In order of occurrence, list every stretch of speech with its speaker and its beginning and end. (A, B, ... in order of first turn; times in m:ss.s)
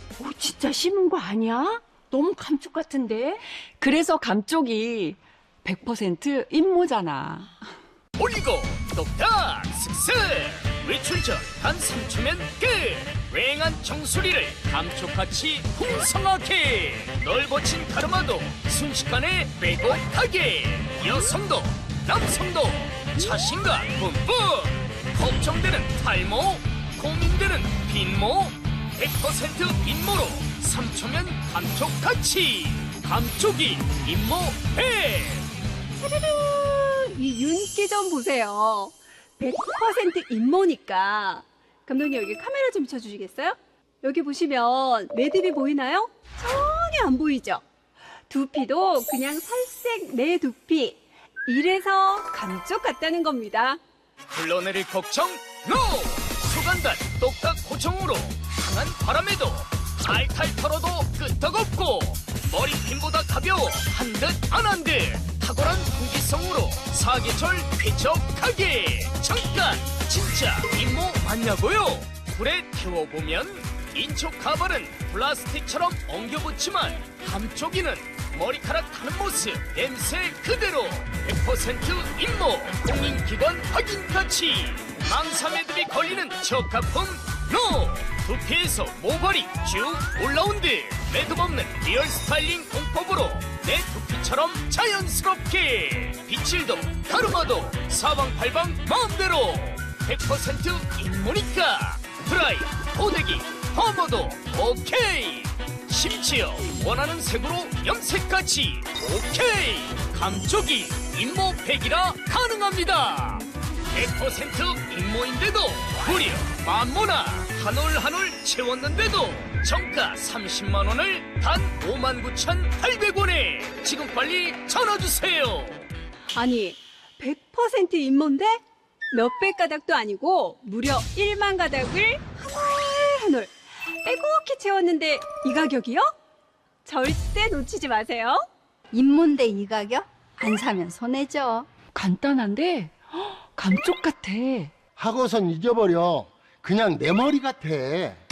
0:00.2-0:07.6 A
0:08.2-0:35.5 B
0:36.0-0:47.6 C
0:48.3-0:53.8 C
0:54.3-2:05.8 B
2:06.4-2:08.6 C
2:09.1-2:16.1 C
2:16.8-2:18.4 C
2:18.9-2:21.7 D
2:21.8-2:24.7 A
2:25.0-2:28.2 E